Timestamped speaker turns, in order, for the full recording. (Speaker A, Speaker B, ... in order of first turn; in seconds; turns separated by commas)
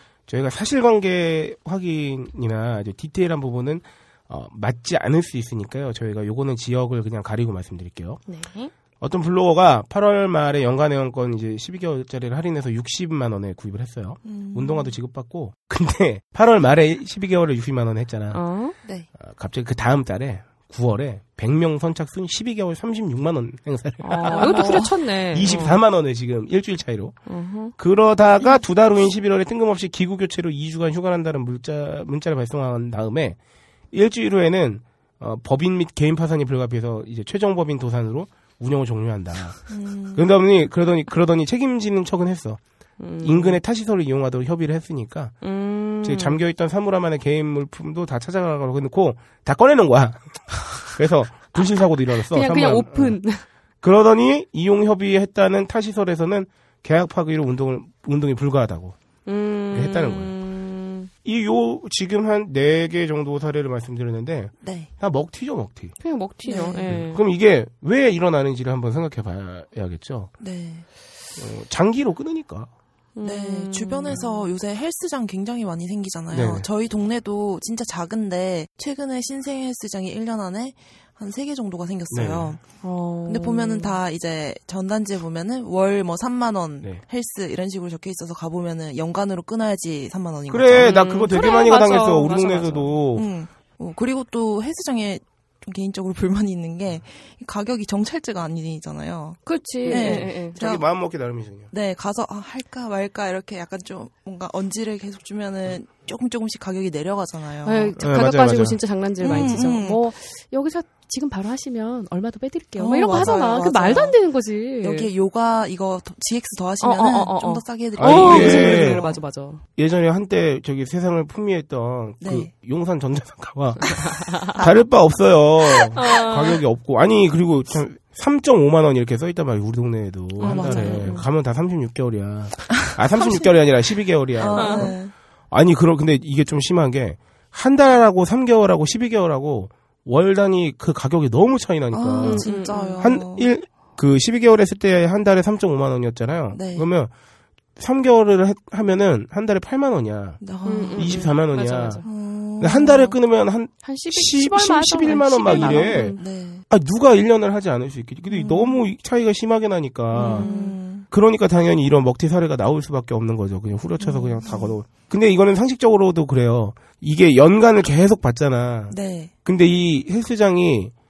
Speaker A: 0.3-8.2, Speaker B: 8.3-8.7, Speaker A: 9.0-18.4, Speaker C: 14.2-14.9, Speaker B: 18.3-18.8, Speaker A: 19.1-27.2, Speaker B: 24.0-25.8, Speaker C: 24.2-24.9, Speaker B: 27.3-27.7, Speaker A: 27.7-33.4, Speaker A: 33.9-42.6, Speaker C: 39.7-40.3, Speaker B: 43.0-43.6, Speaker A: 43.2-45.4, Speaker B: 45.4-46.4, Speaker A: 46.0-53.2, Speaker B: 52.3-53.4, Speaker A: 53.8-59.0, Speaker B: 59.3-61.1, Speaker A: 59.7-60.3, Speaker A: 61.2-66.0, Speaker C: 64.6-64.9, Speaker B: 66.0-67.2, Speaker C: 66.4-67.0, Speaker A: 66.9-70.3, Speaker C: 70.4-70.9, Speaker A: 71.3-72.7, Speaker B: 73.2-74.5, Speaker C: 73.2-82.6, Speaker A: 76.3-76.7, Speaker A: 82.1-82.6, Speaker B: 82.8-84.0, Speaker C: 83.3-90.9, Speaker A: 90.5-93.3, Speaker B: 90.8-92.9, Speaker C: 93.2-100.8, Speaker B: 99.5-100.6, Speaker A: 99.8-101.7, Speaker C: 101.7-107.9, Speaker B: 107.7-115.1, Speaker A: 108.0-109.7, Speaker C: 109.2-110.0, Speaker C: 112.8-114.2, Speaker A: 113.1-113.4, Speaker C: 114.8-119.2, Speaker B: 116.8-119.6, Speaker A: 118.0-119.0, Speaker A: 119.8-147.1, Speaker C: 122.2-122.5, Speaker B: 124.2-124.6, Speaker C: 124.6-124.9, Speaker B: 126.0-126.6, Speaker B: 130.4-131.3, Speaker C: 130.4-131.2, Speaker C: 133.0-133.5, Speaker C: 134.4-135.2, Speaker B: 134.6-134.9, Speaker C: 141.9-143.5, Speaker B: 142.2-143.1, Speaker C: 146.5-146.9, Speaker A: 147.8-150.4, Speaker C: 150.4-151.3, Speaker B: 150.7-152.1, Speaker A: 151.0-152.1, Speaker C: 152.0-153.2, Speaker A: 152.6-160.5, Speaker B: 153.8-156.2, Speaker C: 155.4-156.7, Speaker C: 158.3-158.8, Speaker B: 160.1-160.8, Speaker C: 160.2-161.1, Speaker A: 161.1-170.9, Speaker C: 164.0-164.8, Speaker C: 168.9-169.3